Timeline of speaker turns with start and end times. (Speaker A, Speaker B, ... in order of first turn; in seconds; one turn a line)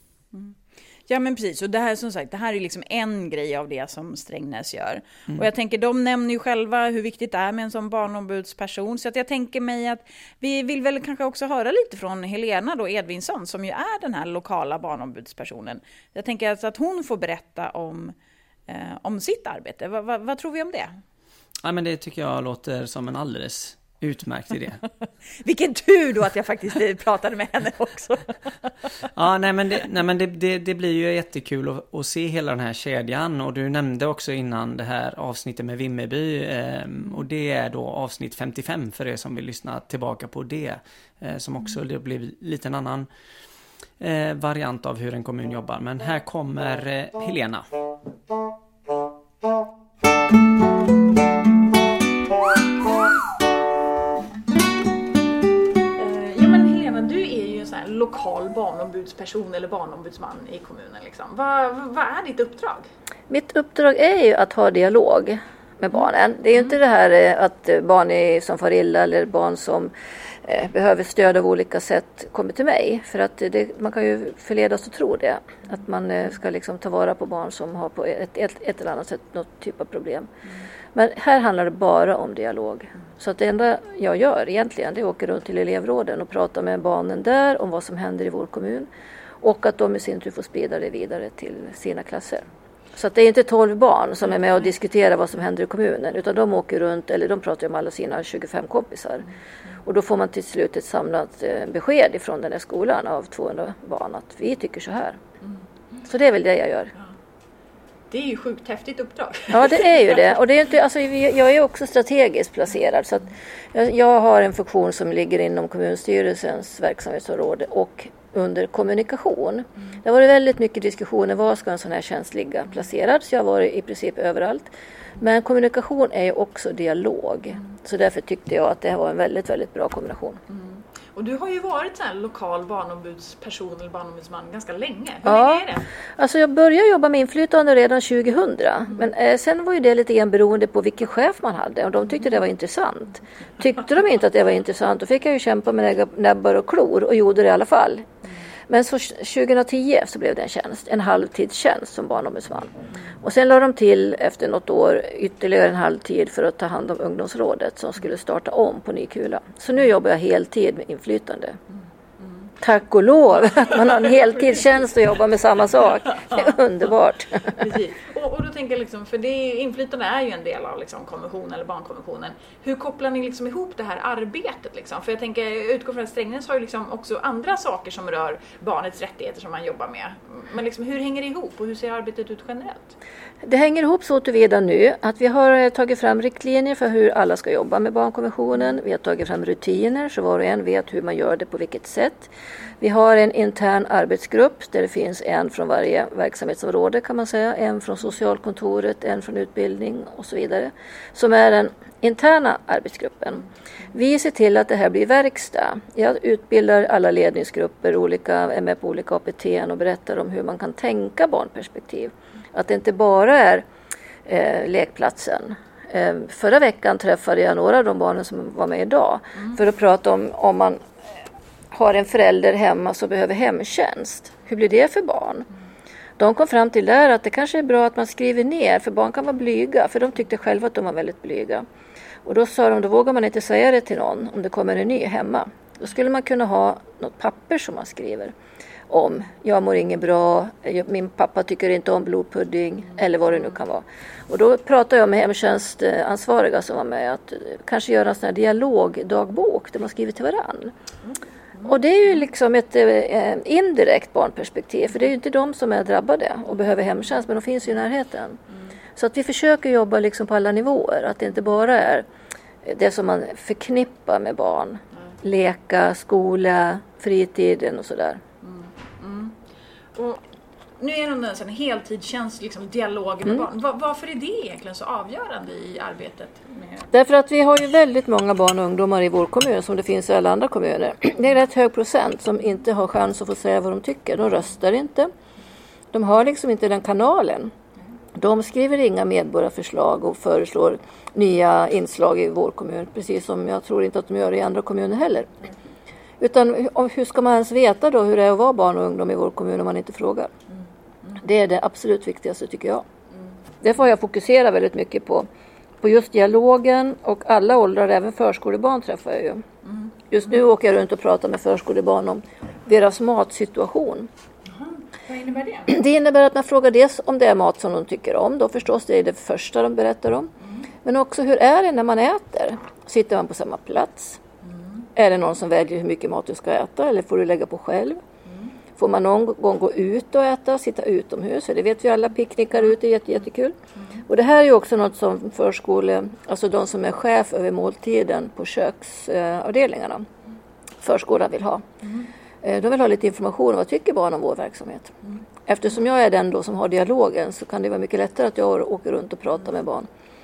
Speaker A: 0.3-18.1
Speaker A: 18.7-20.9
Speaker B: 21.6-24.8
Speaker A: 25.4-28.4
Speaker B: 29.1-43.1
Speaker B: 44.0-47.6
Speaker A: 55.9-62.9
Speaker C: 63.3-69.9
Speaker C: 70.4-80.3
Speaker C: 80.9-88.9
Speaker C: 89.4-99.2
Speaker C: 99.8-105.2
Speaker C: 106.1-106.9
Speaker A: 108.1-110.4
Speaker C: 109.5-124.7
Speaker C: 125.2-130.4
Speaker A: 130.5-135.8
Speaker C: 135.2-135.7
Speaker C: 136.2-148.1
Speaker C: 148.7-161.6
Speaker A: 161.7-162.5
Speaker C: 162.6-167.7
Speaker A: 163.7-164.4
Speaker A: 166.2-166.6
Speaker A: 167.5-182.9
Speaker C: 183.4-213.6
Speaker C: 214.2-220.9
Speaker C: 221.7-225.5
Speaker C: 226.2-231.7
Speaker C: 232.2-238.3
Speaker C: 238.9-250.7
Speaker A: 251.0-251.8
Speaker C: 251.6-258.4
Speaker C: 258.9-262.0
Speaker C: 262.6-268.2
Speaker A: 268.4-269.4
Speaker A: 269.9-270.2
Speaker A: 270.8-276.9
Speaker C: 276.9-285.1
Speaker C: 285.9-287.5
Speaker C: 288.1-295.3
Speaker C: 296.2-300.3
Speaker A: 300.5-301.2
Speaker C: 301.2-302.8
Speaker C: 303.6-305.3
Speaker C: 305.8-309.4
Speaker A: 309.6-309.9
Speaker C: 310.1-314.1
Speaker A: 314.4-315.8
Speaker C: 315.7-320.3
Speaker A: 320.4-320.7
Speaker C: 320.8-324.2
Speaker A: 324.4-324.9
Speaker C: 324.9-328.0
Speaker A: 328.2-328.5
Speaker C: 328.8-333.5
Speaker A: 333.8-334.0
Speaker C: 334.1-340.1
Speaker C: 340.8-341.6
Speaker A: 341.8-342.1
Speaker C: 342.4-344.9
Speaker C: 345.5-349.9